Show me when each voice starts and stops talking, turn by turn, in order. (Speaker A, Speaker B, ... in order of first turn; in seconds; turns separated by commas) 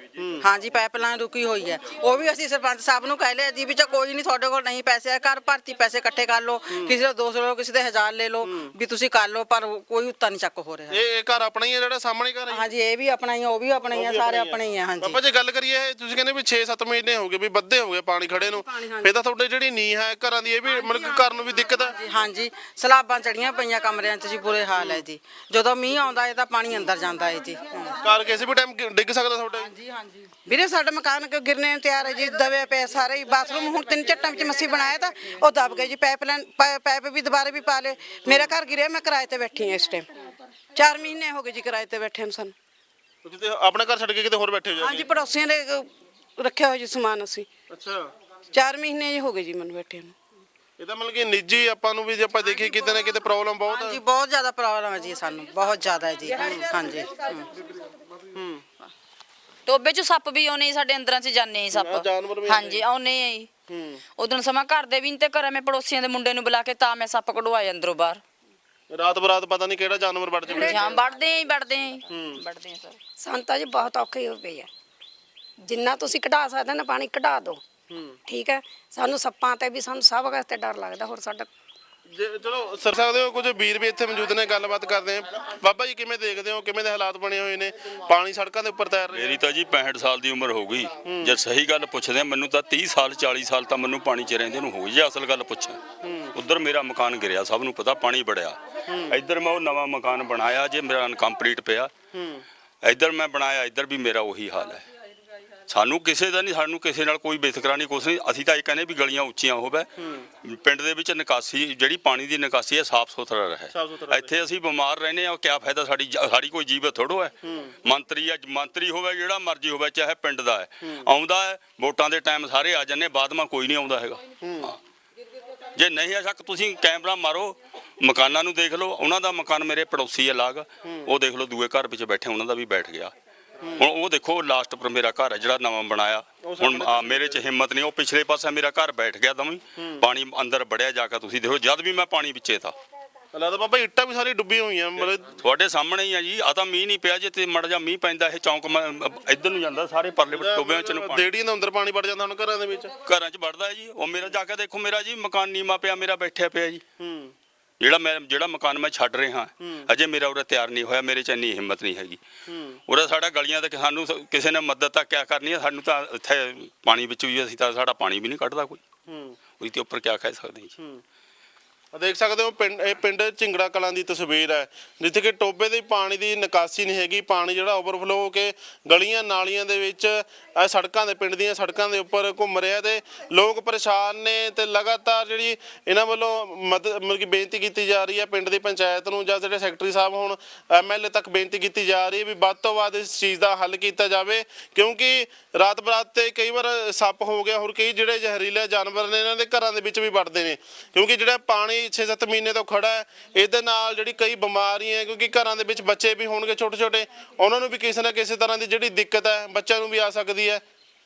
Speaker A: 0.1-0.5, Speaker B: 0.4-11.0, Speaker A: 6.7-7.0, Speaker A: 8.4-8.7, Speaker A: 10.9-12.6, Speaker B: 12.5-15.2, Speaker A: 13.9-21.9, Speaker B: 18.8-19.1, Speaker B: 21.9-28.0, Speaker A: 24.7-25.0, Speaker A: 28.0-29.7, Speaker B: 29.7-30.3, Speaker C: 30.4-40.1, Speaker A: 35.6-35.9, Speaker C: 40.7-42.5, Speaker A: 43.2-45.1, Speaker C: 44.8-47.5, Speaker A: 47.7-48.1, Speaker C: 48.5-50.1, Speaker A: 50.8-54.0, Speaker B: 53.6-57.5, Speaker A: 56.4-56.7, Speaker A: 58.3-58.6, Speaker D: 59.7-63.5, Speaker A: 61.7-62.8, Speaker A: 63.7-64.0, Speaker D: 64.2-68.2, Speaker A: 68.9-71.0, Speaker E: 70.5-71.0, Speaker D: 70.5-73.0, Speaker A: 72.1-72.4, Speaker E: 73.2-74.7, Speaker E: 75.6-77.6, Speaker A: 77.9-78.2, Speaker E: 78.2-81.5, Speaker A: 82.1-89.4, Speaker F: 89.1-95.8, Speaker A: 91.0-91.3, Speaker A: 96.0-96.3, Speaker F: 96.3-101.9, Speaker A: 98.9-99.2, Speaker A: 102.1-102.4, Speaker F: 102.8-104.8, Speaker F: 105.7-109.9, Speaker A: 110.0-110.3, Speaker F: 110.4-117.3, Speaker A: 113.7-114.3, Speaker A: 117.4-117.7, Speaker F: 117.8-124.8, Speaker A: 120.8-121.1, Speaker A: 124.4-124.7, Speaker F: 125.7-133.1, Speaker A: 130.8-131.1, Speaker A: 133.6-133.9, Speaker F: 133.8-142.7, Speaker A: 136.4-137.4, Speaker A: 139.8-140.1, Speaker A: 143.3-145.3, Speaker F: 145.4-151.3, Speaker A: 150.3-152.9, Speaker F: 153.0-156.8, Speaker A: 157.0-157.3, Speaker F: 157.8-162.2, Speaker A: 159.6-159.9, Speaker A: 162.5-162.8, Speaker F: 162.9-168.8, Speaker A: 169.1-169.4, Speaker F: 169.6-170.7, Speaker A: 171.9-210.6